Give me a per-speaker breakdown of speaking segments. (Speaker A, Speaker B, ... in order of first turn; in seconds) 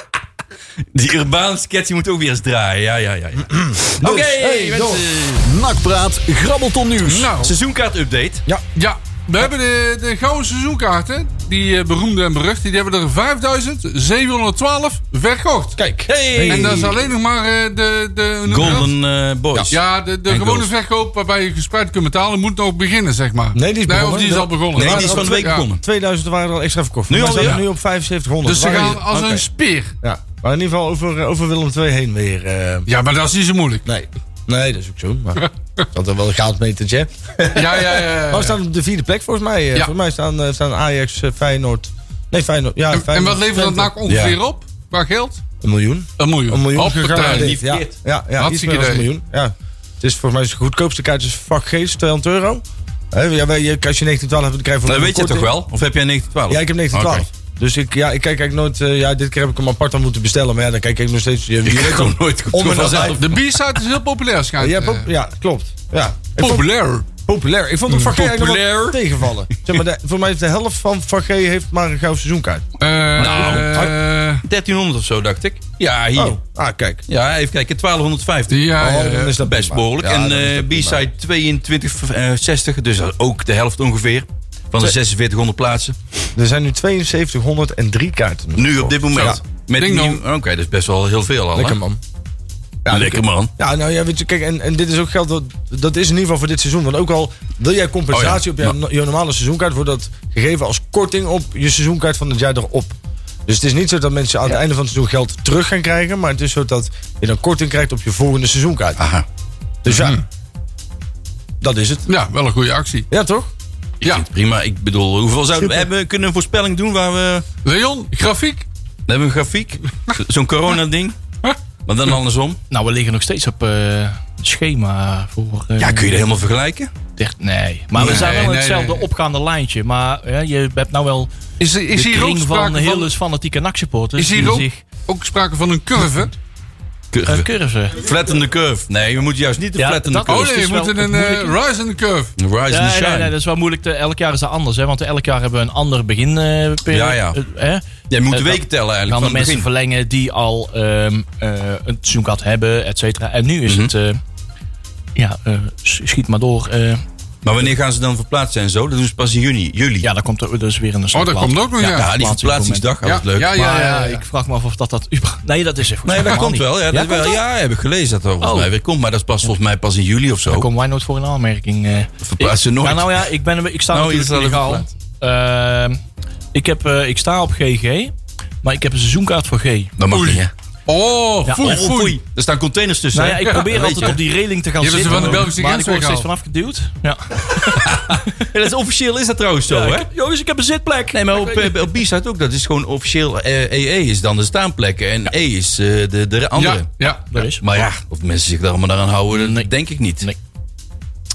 Speaker A: 0.9-5.5, 7.4-8.4, 16.1-17.1, 18.5-19.8, 20.3-20.7, 24.8-25.8, 27.1-27.6, 28.9-29.4, 44.1-44.4, 47.1-48.0, 54.9-57.3, 61.6-63.4, 68.1-69.0, 73.2-73.9, 74.5-76.4, 77.1-78.5, 79.4-86.3, 88.6-91.8, 92.9-93.5, 98.1-98.8, 109.0-109.2, 114.0-117.5, 119.1-121.2, 121.9-122.6, 125.8-126.9, 128.0-128.5, 137.1-140.6, 142.4-143.3, 146.9-147.4, 148.1-149.7, 153.7-153.9, 157.4-160.1, 161.9-163.6, 166.1-170.7, 172.2-173.3, 173.9-174.9, 180.0-180.5, 181.6-184.2, 185.0-185.5, 187.8-190.1, 191.1-196.9, 197.6-200.3
Speaker B: 3.5-5.0, 15.8-17.0, 23.5-29.1, 30.0-32.9, 33.9-35.4, 35.9-43.9, 45.6-55.5, 56.5-63.3, 64.6-72.7, 73.2-73.9, 76.2-77.0, 78.8-81.0, 86.3-89.4, 91.5-92.0, 92.8-103.0, 103.5-109.0, 109.8-110.2, 111.6-112.1, 113.1-113.5
Speaker C: 5.4-7.3
Speaker D: 7.0-7.5, 8.8-15.8, 16.5-18.9, 19.7-25.6, 27.3-27.6, 28.4-29.9, 32.9-33.9, 37.5-38.6, 42.9-45.4, 46.2-47.6, 48.4-49.1, 63.2-65.1, 66.4-67.1, 72.8-74.4, 78.5-79.4, 89.8-90.2, 109.9-110.2, 112.1-113.1, 117.6-118.7, 128.0-129.1, 131.6-133.1, 134.2-136.3, 140.3-142.3, 161.1-162.1, 163.0-164.2, 180.1-182.2, 184.8-186.3, 196.6-197.3
Speaker E: 122.7-126.3, 127.2-131.3, 131.9-134.8, 137.3-138.1, 139.7-141.6, 142.7-154.2, 155.2-157.0, 160.0-162.9, 163.5-167.4, 168.4-168.7, 170.4-176.0, 176.5-179.9, 181.4-181.8, 183.1-188.2, 189.7-191.9, 197.3-197.6, 199.3-199.7